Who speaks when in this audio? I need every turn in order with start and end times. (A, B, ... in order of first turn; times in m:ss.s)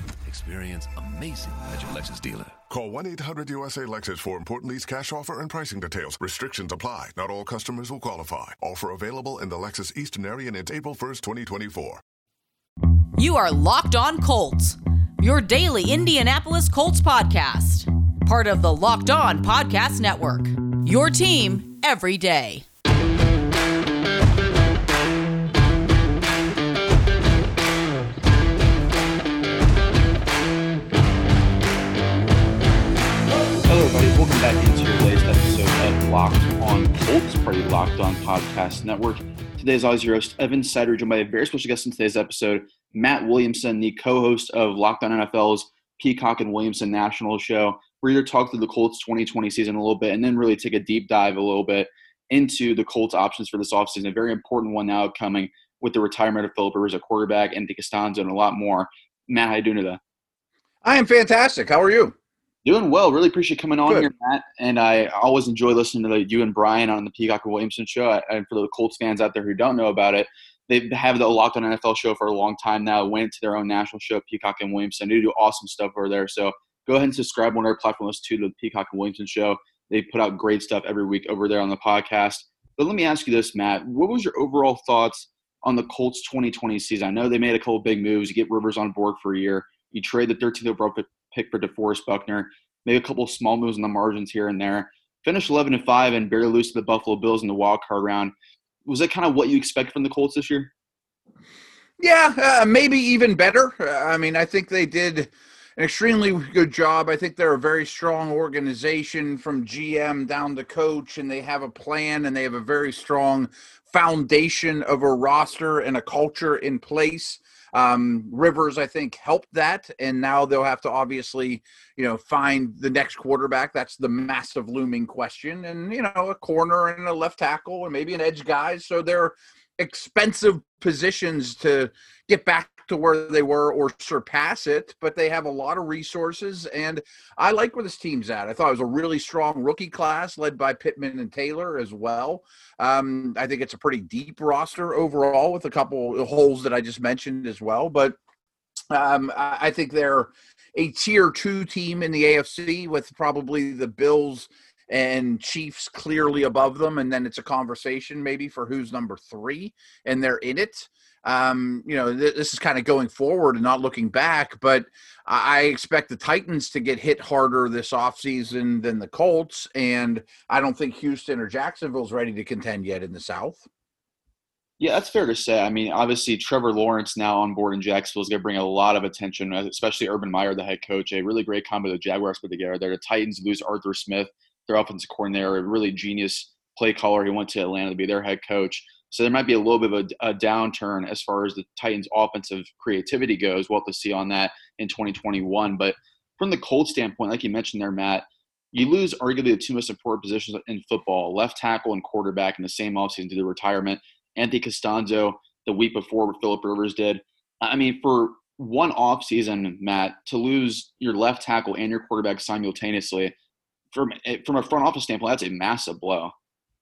0:00.2-0:02.6 A
0:02.7-0:12.0 B
0:13.2-0:22.6 C
0:33.6-1:00.0 D
1:00.8-1:02.2 E
1:02.6-1:38.3 D
1:03.9-1:04.1 E
1:38.9-1:40.7 D
1:42.0-2:28.2 E
2:28.9-2:53.7 E
2:54.8-3:33.3 D
3:33.9-3:36.3 D